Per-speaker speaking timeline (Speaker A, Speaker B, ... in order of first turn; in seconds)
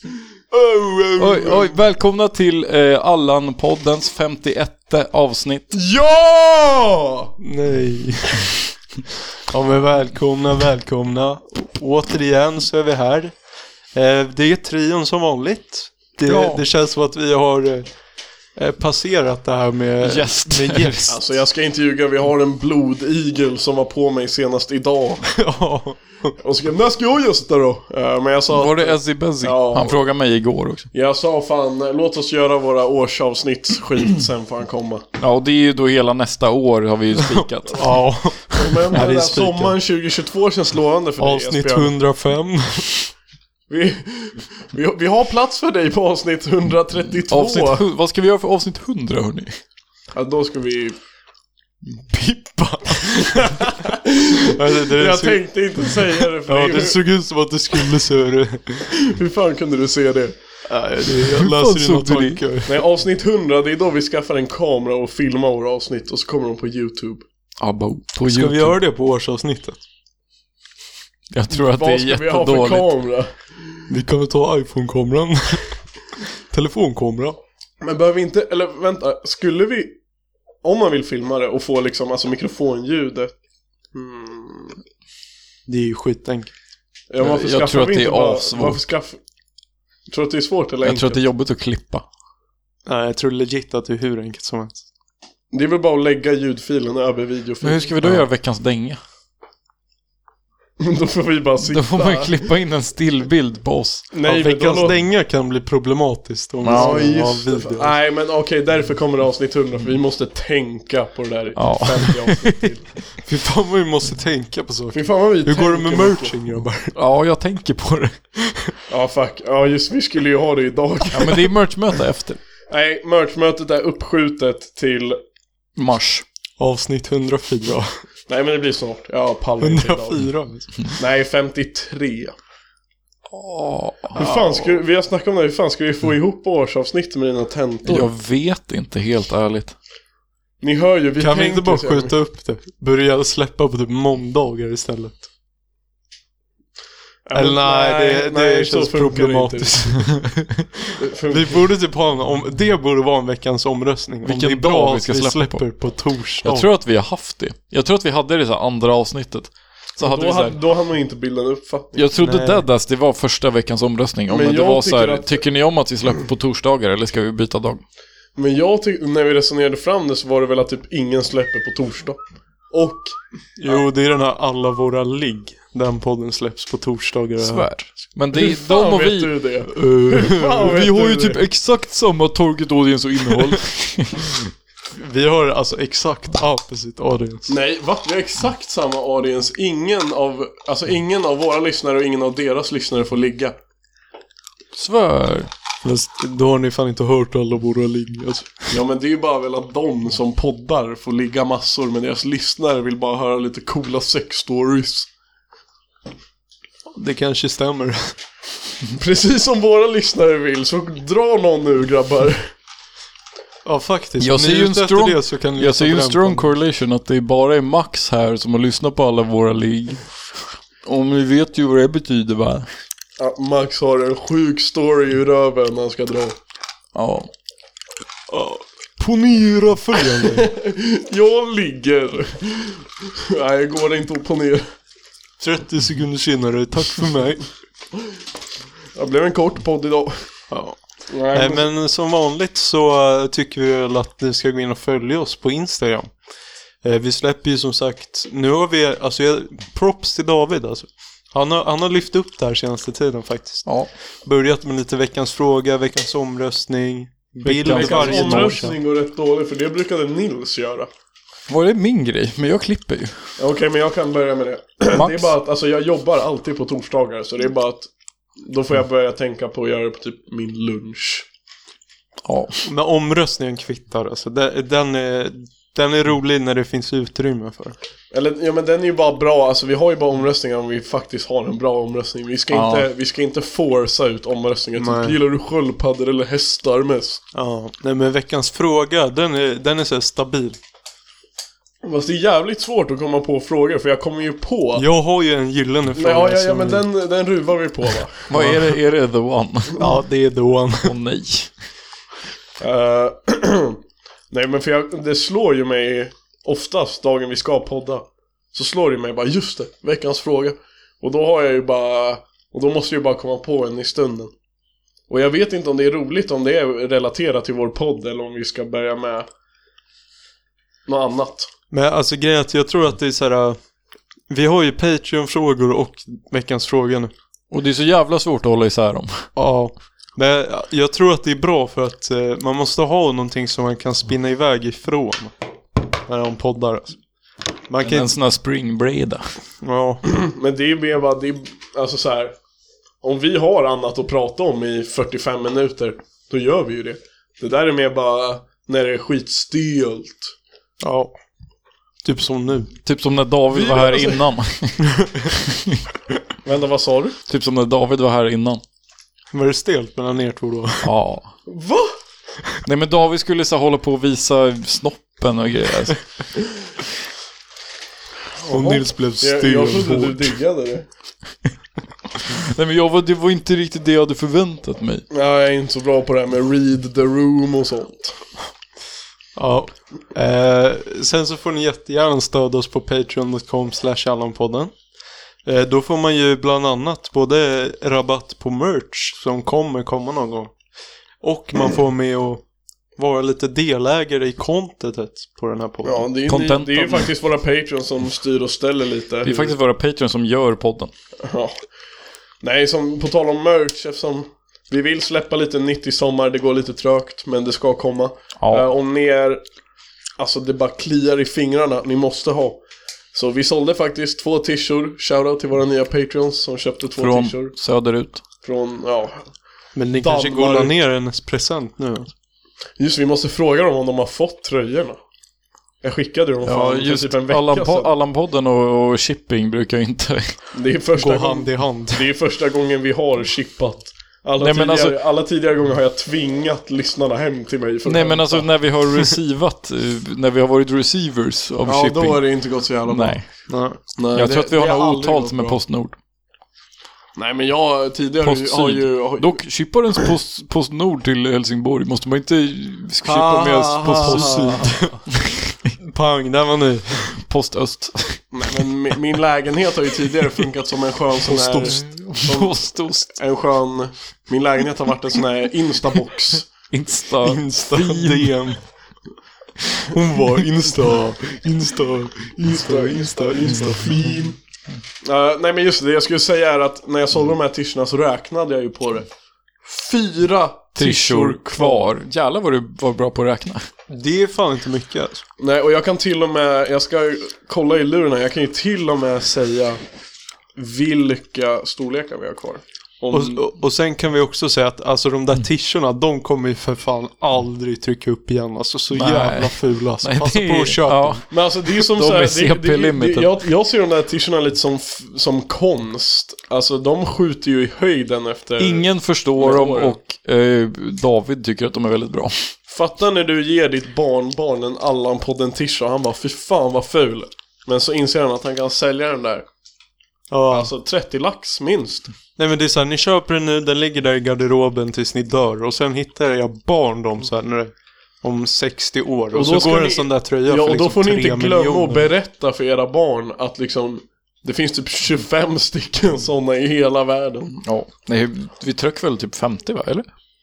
Speaker A: 0.5-1.6, 5.7-7.4, 21.1-25.3, 26.4-30.0, 30.9-35.0, 38.5-41.9, 43.7-47.8, 50.1-51.0, 53.0-57.0, 59.0-60.4, 62.7-67.2, 71.5-73.3, 77.8-80.0, 80.6-83.3, 83.9-84.8, 87.1-89.2, 90.1-91.2, 95.5-98.1, 100.8-102.4, 104.1-105.0, 106.7-112.9, 114.9-116.3, 118.9-121.5, 122.7-125.2, 128.3-130.3, 130.8-132.3, 134.1-138.1, 140.6-142.2, 147.3-150.1, 151.0-151.7, 160.0-162.1, 164.3-165.4, 168.4-172.2, 172.7-173.2, 178.3-181.4, 187.5-193.6, 198.7-205.1, 208.9-212.5, 223.2-226.4, 230.3-234.7, 239.0-240.3, 241.1-241.7, 257.7-260.9, 263.4-267.9, 268.4-271.3, 278.1-287.2, 291.8-294.9, 295.9-298.4, 302.6-303.8, 304.3-314.3, 315.1-319.3, 320.9-321.5, 340.0-342.4, 343.0-350.3, 353.5-354.2, 356.4-357.2, 361.5-361.9, 368.4-370.9, 375.1-378.2, 395.8-399.5, 401.2-401.6, 402.4-409.4, 410.2-412.6, 413.1-417.5, 418.4-419.3, 420.0-420.7, 422.8-425.0, 425.8-427.9, 430.5-438.5, 441.6-443.2, 444.0-445.6, 447.2-449.3, 453.0-454.7, 458.3-466.5, 472.4-474.4, 475.0-479.1, 479.7-481.9, 485.4-489.8, 490.6-493.4, 501.3-508.9, 509.4-510.0, 512.7-519.5, 520.5-522.1, 529.3-537.6
Speaker B: 1.2-5.7, 16.2-16.6, 20.0-21.1, 28.5-30.9, 35.2-38.3, 47.3-49.5, 61.1-62.5, 67.6-68.8, 71.3-72.9, 87.2-88.8, 90.8-92.0, 97.6-99.0, 101.7-104.1, 106.6-107.2, 111.6-112.7, 116.9-118.2, 121.1-122.4, 125.8-126.2, 133.3-134.3, 137.8-139.8, 154.2-160.6, 161.9-167.8, 177.4-179.7, 180.3-184.4, 194.8-195.5, 214.2-220.1, 220.8-222.7, 226.9-227.3, 257.4-258.6, 261.5-263.2, 264.9-265.3, 272.2-272.6, 282.5-282.9, 298.3-299.8, 300.8-301.5, 327.5-329.3, 337.8-339.2, 352.9-355.8, 357.3-358.6, 360.8-361.3, 362.6-366.3, 372.4-375.1, 396.3-397.1, 399.2-400.9, 408.4-408.6, 417.0-418.2, 426.4-430.3, 434.4-435.0, 437.9-442.3, 442.9-443.3, 444.1-446.0, 448.2-454.7, 457.2-458.3, 461.6-463.1, 466.7-468.4, 480.8-483.7, 498.9-503.3, 508.6-512.5, 537.6-540.1
Speaker C: 7.4-8.6, 9.5-13.3, 13.9-17.9, 18.6-21.2, 25.3-26.3, 37.2-39.8, 41.2-43.1, 54.5-58.9, 60.7-62.8, 68.3-69.8, 73.9-75.8, 76.5-77.4, 85.7-86.5, 92.9-94.8, 104.2-107.9, 113.2-117.0, 118.4-118.7, 126.6-127.9, 129.6-130.7, 141.2-145.2, 147.3-156.7, 162.2-162.7, 173.6-177.7, 179.7-180.5, 184.9-187.5, 195.8-198.7, 206.9-208.2, 213.7-216.5, 228.3-230.5, 235.4-237.4, 240.5-240.8, 241.3-246.1, 246.8-253.7, 254.2-258.8, 272.6-277.8, 284.8-285.1, 287.3-290.6, 294.8-296.9, 299.8-301.0, 321.7-323.6, 324.3-327.1, 329.4-337.0, 337.7-338.1, 339.6-340.0, 350.8-351.1, 352.0-352.7, 359.3-360.9, 368.5-370.3, 379.4-384.7, 385.4-390.5, 391.2-392.4, 393.0-396.1, 419.8-422.1, 431.0-432.1, 443.5-443.8, 453.9-455.1, 455.8-457.2, 461.3-461.8, 467.2-468.6, 469.8-474.0, 483.9-485.2, 493.1-501.2, 520.3-520.7, 522.4-532.1